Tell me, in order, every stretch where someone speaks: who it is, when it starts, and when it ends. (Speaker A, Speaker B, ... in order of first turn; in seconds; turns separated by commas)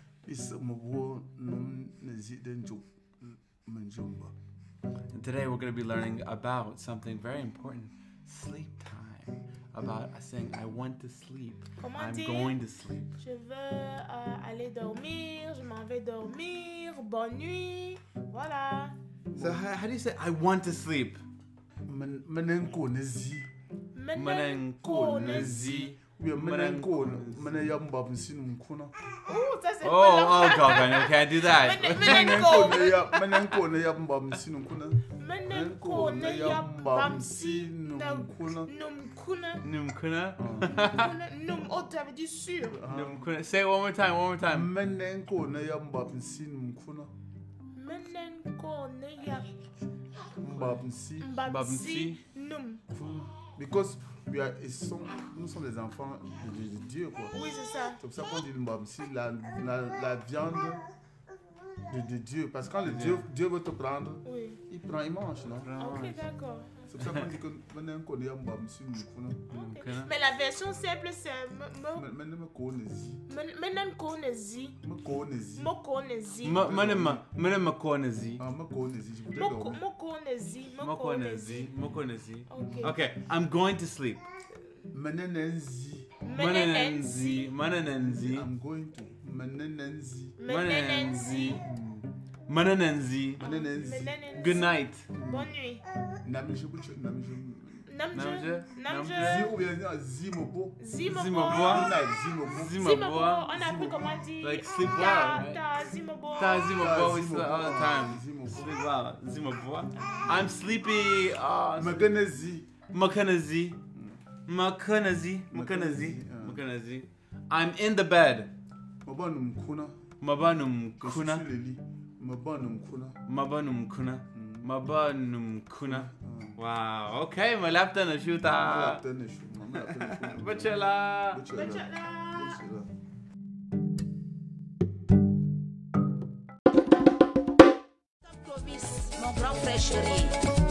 Speaker A: 0.2-4.3, Speaker B: 5.1-13.1, Speaker C: 11.8-12.6, Speaker C: 13.1-18.9, Speaker A: 19.3-19.6, Speaker B: 19.4-21.2, Speaker A: 21.8-23.5, Speaker C: 23.9-25.5, Speaker B: 24.1-27.6, Speaker A: 24.8-28.9, Speaker C: 29.2-33.1, Speaker B: 29.8-33.6, Speaker A: 32.0-38.7, Speaker C: 35.1-39.6, Speaker B: 39.6-41.1, Speaker A: 40.4-40.8, Speaker C: 40.7-42.8, Speaker A: 42.7-43.3, Speaker B: 42.9-44.7, Speaker A: 44.4-47.1, Speaker C: 47.7-49.5, Speaker A: 50.4-51.4, Speaker C: 51.2-52.8, Speaker B: 51.4-52.2, Speaker A: 52.9-57.4, Speaker C: 57.3-58.0, Speaker A: 58.0-60.8, Speaker A: 61.8-65.7, Speaker B: 62.8-63.2, Speaker C: 64.2-64.6, Speaker B: 65.6-66.2, Speaker C: 65.8-66.8, Speaker A: 66.8-69.5, Speaker B: 67.0-67.3, Speaker B: 69.5-70.1, Speaker C: 69.5-72.0, Speaker A: 71.9-73.2, Speaker C: 73.3-74.8, Speaker A: 74.8-75.7, Speaker C: 75.5-76.7, Speaker B: 76.4-78.4, Speaker A: 76.5-77.2, Speaker A: 78.4-79.8, Speaker C: 79.3-81.7, Speaker B: 80.8-84.2, Speaker C: 82.5-83.0, Speaker A: 84.9-86.2, Speaker C: 86.2-87.5, Speaker B: 86.3-88.5, Speaker A: 88.0-90.4, Speaker C: 90.4-91.6, Speaker B: 90.5-91.6, Speaker A: 91.6-92.0, Speaker B: 92.5-93.4, Speaker A: 93.4-94.2, Speaker C: 93.4-95.8, Speaker B: 94.3-95.1, Speaker A: 95.1-95.5, Speaker A: 96.2-97.9, Speaker C: 97.8-99.5, Speaker B: 98.1-99.5, Speaker A: 99.2-100.8, Speaker C: 100.8-102.1, Speaker B: 101.0-103.5, Speaker A: 101.4-102.8, Speaker C: 102.7-106.8, Speaker A: 103.5-104.2, Speaker B: 104.4-105.6, Speaker B: 106.3-112.1, Speaker A: 106.8-108.7, Speaker C: 110.0-110.4, Speaker A: 110.3-110.5, Speaker A: 111.8-112.7, Speaker B: 112.9-113.8, Speaker A: 113.9-114.2, Speaker B: 114.5-118.5, Speaker A: 115.5-116.6, Speaker A: 119.0-120.0, Speaker B: 120.2-121.5, Speaker A: 121.0-123.2, Speaker B: 123.2-129.0, Speaker A: 124.3-124.7, Speaker A: 125.8-126.6, Speaker A: 128.6-132.9, Speaker B: 129.8-131.4, Speaker C: 131.5-132.6, Speaker D: 138.2-140.4